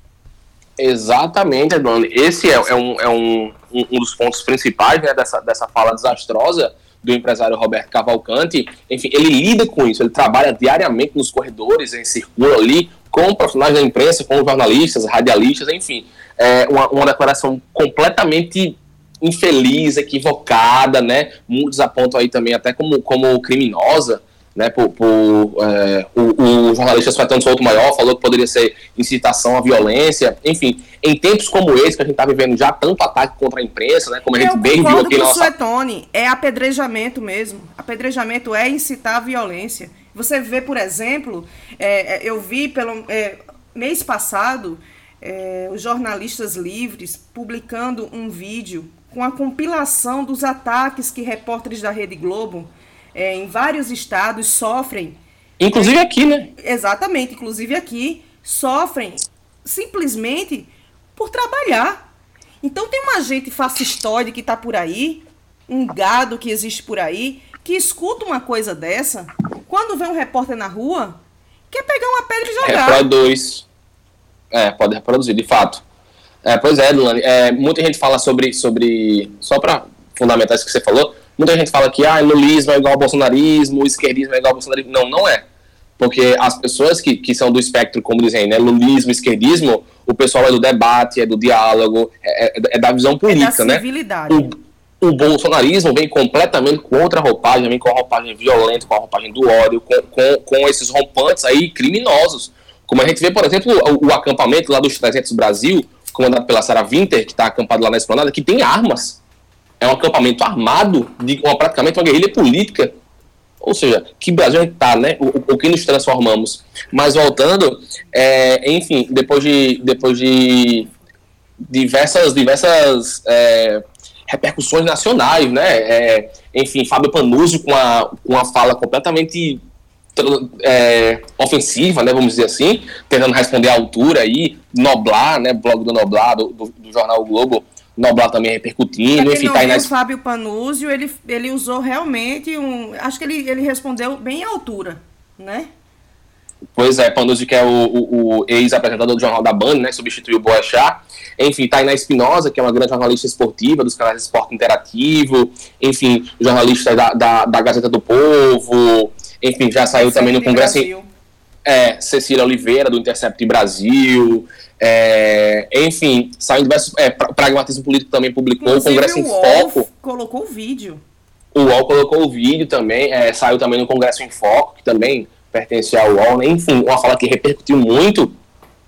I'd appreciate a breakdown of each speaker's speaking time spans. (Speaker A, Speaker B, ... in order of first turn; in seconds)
Speaker A: 0.8-35.5, 55.6-56.5, 72.6-73.7, 74.5-75.8, 76.4-85.4, 86.0-109.2, 109.8-113.0, 113.6-120.9, 121.7-129.6, 130.2-139.9, 146.8-160.9, 161.7-169.8, 171.5-178.3
Speaker B: 34.3-55.2, 56.6-62.0, 62.6-71.2, 71.7-73.0, 93.2-94.5, 139.1-145.7, 159.9-161.1, 168.6-171.0